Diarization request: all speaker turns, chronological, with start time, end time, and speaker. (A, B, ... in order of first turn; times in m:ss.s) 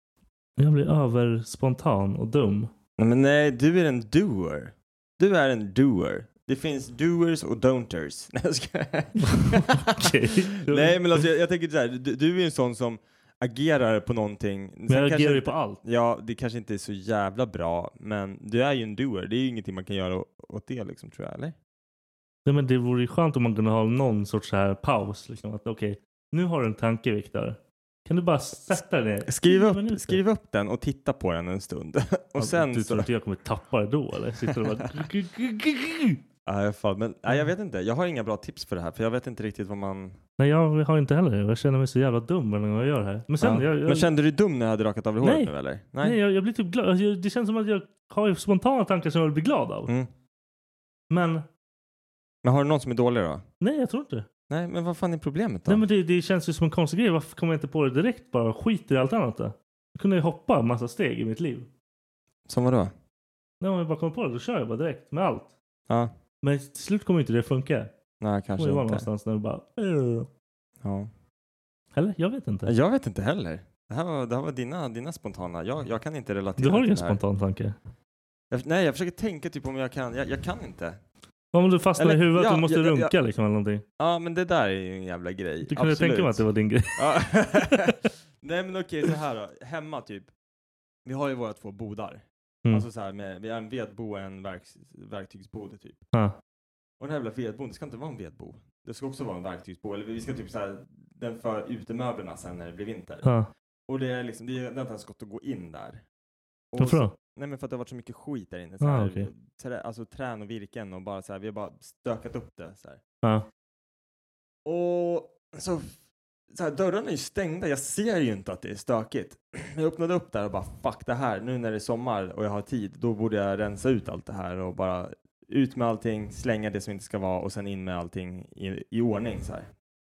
0:00.6-0:02.7 A
0:03.0-0:10.1 B
0:09.3-0:11.2 A
0:10.7-0:21.6 B
0:14.9-0:15.8 A
0:22.5-0:30.2 A
0:29.3-0:33.1 B
0:32.4-0:36.2 A
0:36.5-0:40.2 B
0:40.4-0:44.1 A
0:43.4-0:46.2 B
0:45.2-0:49.9 A
0:51.1-0:51.5 A
0:52.4-0:53.4 B
0:53.6-0:54.3 A
0:54.5-0:55.8 B
0:55.7-1:01.7 A
1:02.5-1:02.9 B
1:03.6-1:05.5 A
1:06.4-1:07.9 A
1:08.2-1:09.1 B
1:08.6-1:10.3 A
1:10.8-1:11.1 B
1:12.0-1:12.7 A
1:12.7-1:17.2 B
1:16.6-1:17.8 A
1:18.5-1:21.0 B
1:21.5-1:23.8 A
1:22.0-1:23.1 B
1:24.0-1:26.4 B
1:25.7-1:28.0 A
1:27.0-1:30.3 B
1:31.0-1:36.1 B
1:37.0-1:43.3 B
1:43.2-1:43.5 A
1:43.9-1:46.0 B
1:46.7-1:53.0 B
1:46.8-1:47.2 A
1:48.8-1:49.3 A
1:54.6-1:56.0 B
1:56.5-2:09.7 B